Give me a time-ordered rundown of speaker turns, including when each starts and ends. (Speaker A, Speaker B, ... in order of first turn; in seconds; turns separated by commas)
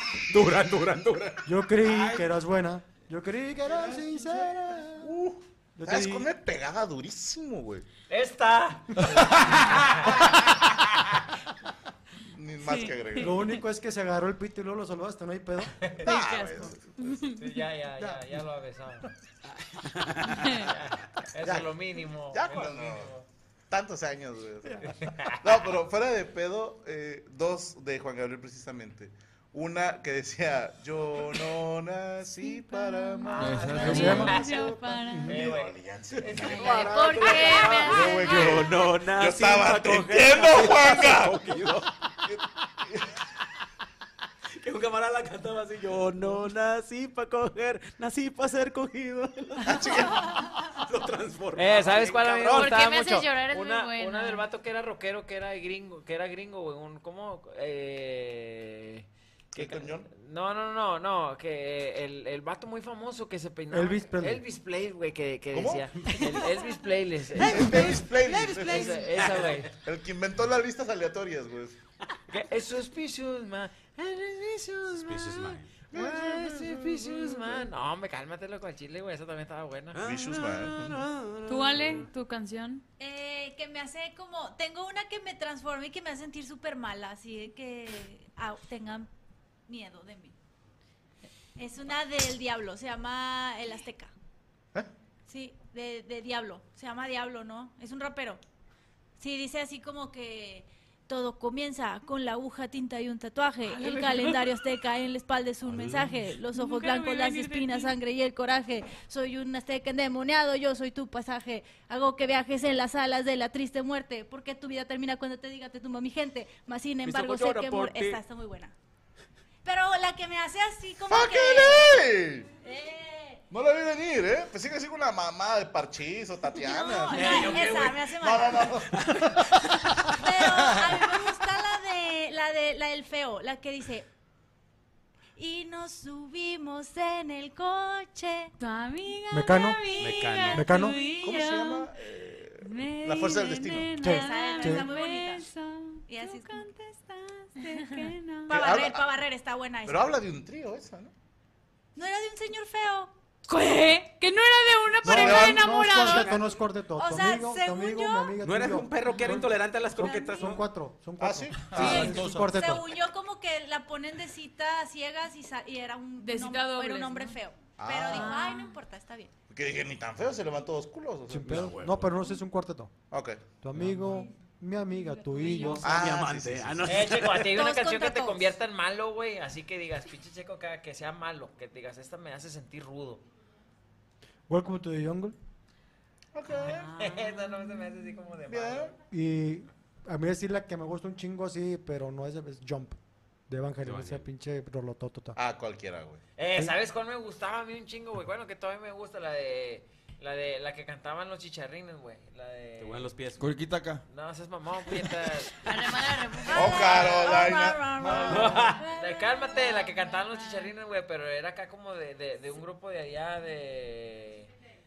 Speaker A: 0.2-1.5, Speaker B: 1.5-5.1, Speaker C: 1.8-2.3, Speaker C: 3.6-4.5, Speaker D: 5.0-7.9, Speaker B: 5.8-6.3, Speaker E: 8.1-10.3, Speaker D: 12.3-13.4, Speaker F: 12.6-13.6, Speaker B: 13.2-15.9, Speaker D: 16.0-17.3, Speaker F: 16.1-17.5, Speaker E: 17.4-19.1, Speaker B: 18.0-18.2, Speaker A: 19.8-20.6, Speaker F: 20.4-20.7, Speaker E: 20.6-23.3, Speaker D: 21.4-21.8, Speaker D: 22.3-23.1, Speaker D: 23.7-41.4, Speaker E: 24.9-25.4, Speaker F: 32.6-35.3, Speaker E: 33.3-34.4, Speaker C: 33.4-34.4, Speaker B: 33.7-34.4, Speaker B: 34.9-35.5, Speaker E: 35.3-38.1, Speaker A: 36.3-41.9, Speaker G: 36.7-38.6, Speaker A: 44.6-52.8, Speaker D: 49.6-50.4, Speaker E: 51.6-69.7, Speaker G: 52.5-54.5, Speaker D: 59.5-60.1, Speaker B: 63.7-64.4, Speaker D: 65.5-66.4, Speaker D: 67.4-69.3, Speaker H: 67.8-68.6, Speaker A: 68.4-69.5, Speaker D: 69.8-71.8, Speaker E: 72.3-80.0, Speaker A: 74.9-75.7, Speaker D: 75.9-77.0, Speaker A: 79.9-82.1, Speaker D: 80.0-81.0, Speaker F: 81.5-82.8, Speaker H: 83.0-89.1, Speaker H: 89.7-90.3, Speaker H: 91.6-94.1, Speaker H: 95.3-98.4, Speaker H: 99.2-118.7, Speaker F: 103.7-104.5, Speaker A: 105.7-106.3, Speaker F: 106.5-108.0, Speaker A: 117.0-118.2, Speaker H: 119.6-122.1, Speaker D: 121.1-122.5, Speaker H: 122.6-123.4, Speaker D: 123.5-129.1, Speaker H: 126.5-128.8, Speaker A: 127.1-128.1, Speaker A: 128.9-130.8, Speaker H: 130.1-134.1, Speaker H: 135.4-138.5, Speaker F: 138.6-141.9, Speaker B: 139.3-139.8, Speaker A: 140.0-140.8, Speaker B: 140.5-141.0, Speaker D: 141.1-144.0, Speaker F: 142.6-148.7, Speaker B: 144.0-144.9, Speaker H: 144.1-145.5, Speaker H: 146.1-146.8, Speaker H: 147.6-150.1, Speaker D: 148.5-149.1, Speaker D: 149.8-151.1, Speaker H: 151.9-153.1, Speaker F: 153.5-156.4, Speaker B: 155.0-163.0, Speaker D: 155.0-155.8, Speaker A: 156.0-156.5, Speaker H: 156.9-158.4, Speaker A: 158.4-160.6, Speaker H: 160.1-160.4, Speaker D: 161.2-162.0, Speaker C: 161.6-162.6, Speaker H: 161.8-169.3, Speaker F: 166.2-167.4, Speaker D: 167.8-168.4, Speaker F: 168.1-168.8, Speaker D: 169.5-171.8, Speaker B: 171.3-172.9, Speaker A: 171.4-172.2, Speaker D: 173.1-173.4, Speaker B: 173.6-175.9, Speaker A: 173.8-174.2, Speaker F: 175.4-175.7, Speaker A: 175.4-177.5, Speaker D: 175.8-176.9, Speaker E: 176.9-183.2, Speaker H: 177.4-178.6, Speaker B: 184.5-185.4, Speaker D: 186.3-187.0, Speaker F: 186.5-188.1, Speaker E: 186.6-188.9, Speaker D: 188.5-188.9, Speaker B: 189.1-193.0, Speaker B: 193.5-195.4, Speaker A: 193.8-194.3, Speaker D: 195.3-196.2, Speaker E: 196.4-203.1, Speaker A: 202.8-203.5, Speaker C: 203.4-204.0, Speaker E: 204.1-205.9, Speaker G: 205.6-207.2, Speaker D: 206.5-208.1, Speaker H: 206.5-210.7, Speaker E: 208.0-214.5, Speaker A: 208.2-208.8